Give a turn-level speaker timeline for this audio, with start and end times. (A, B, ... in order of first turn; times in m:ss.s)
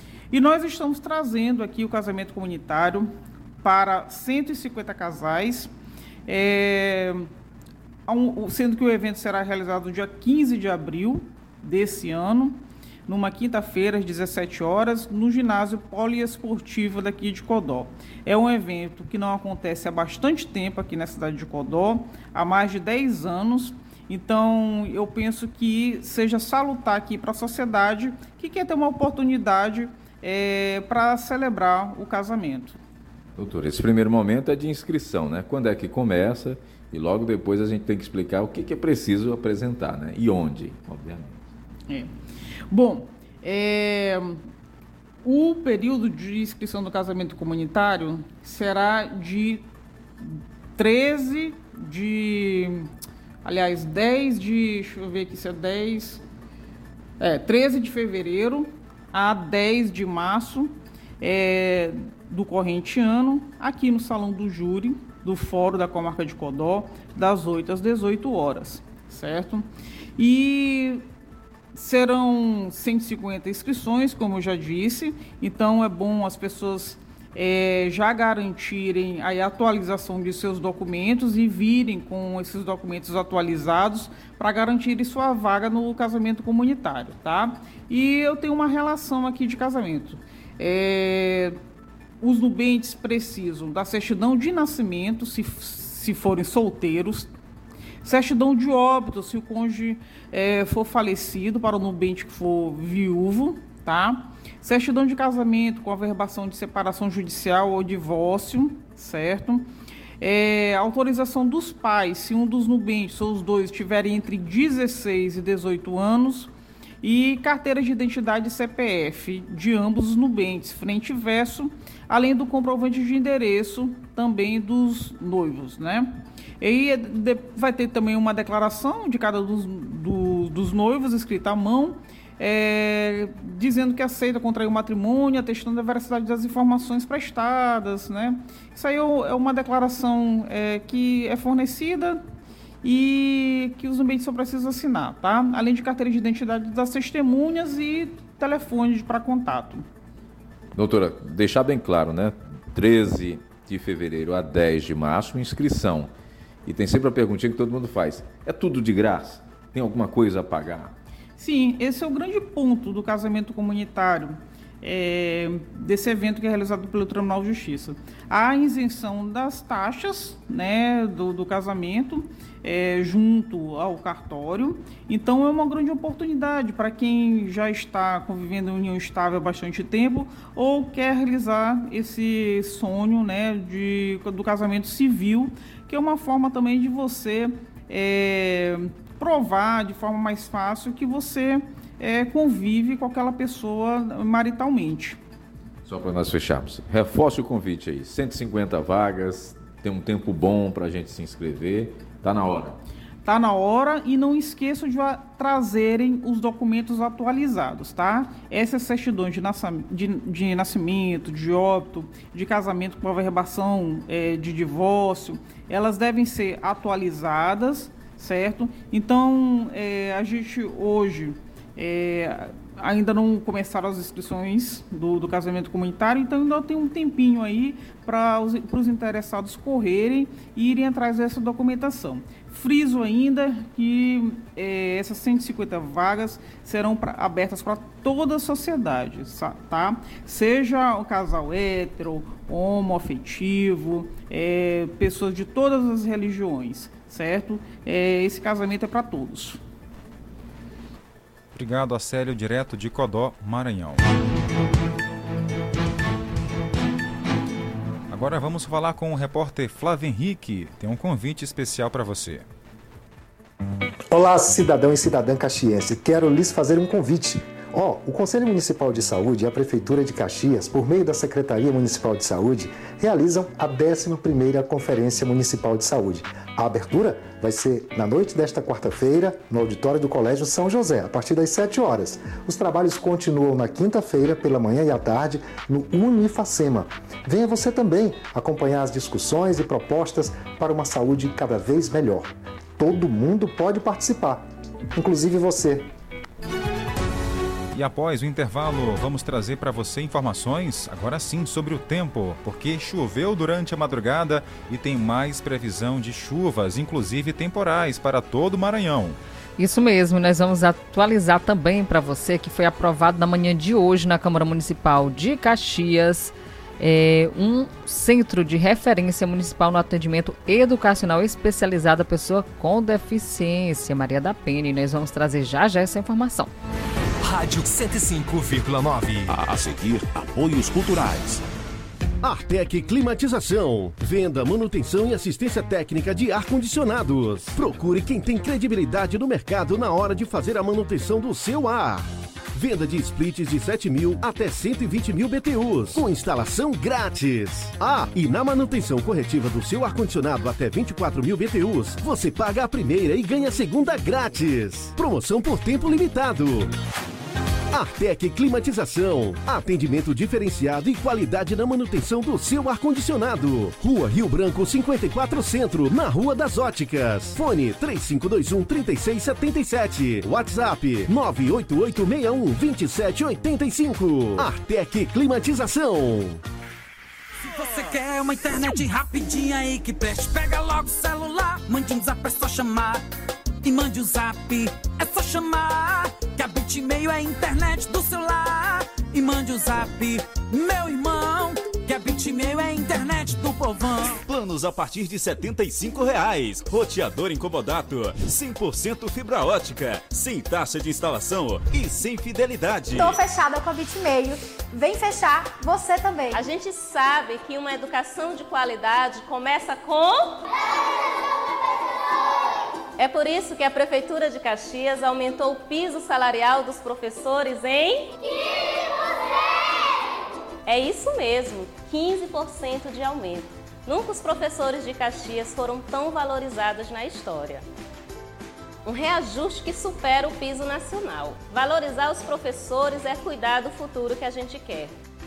0:00.3-0:05.7 A
0:06.3-0:07.3 A
0:08.1-0:32.8 A
0:33.4-0:41.4 B
0:42.7-0:44.4 A
0:45.2-0:49.6 A
0:50.2-0:52.9 A
0:53.4-0:56.2 A
0:57.2-1:11.1 A
1:11.7-1:31.6 A
1:32.2-1:37.3 A
1:38.0-1:49.7 A
1:50.2-1:56.5 A
1:57.0-2:22.2 A
2:22.8-2:29.8 A
2:30.7-2:36.1 B
2:36.6-2:40.9 B
2:41.4-3:15.2 A
3:15.8-3:22.8 B
3:23.2-4:09.6 A
4:11.5-4:14.1 C
4:18.1-4:22.4 C
4:24.1-4:55.9 D
4:57.7-5:09.2 C
5:09.6-5:26.5 E
5:29.2-5:31.4 F
5:32.2-5:56.7 G
5:57.7-6:16.4 G
6:17.4-6:23.0 H
6:23.6-6:34.2 H
6:34.2-6:43.2 I
6:42.9-6:46.4 J
6:46.3-6:50.4 K
6:53.0-6:58.1 K
7:00.6-7:07.6 K
7:08.8-7:14.9 K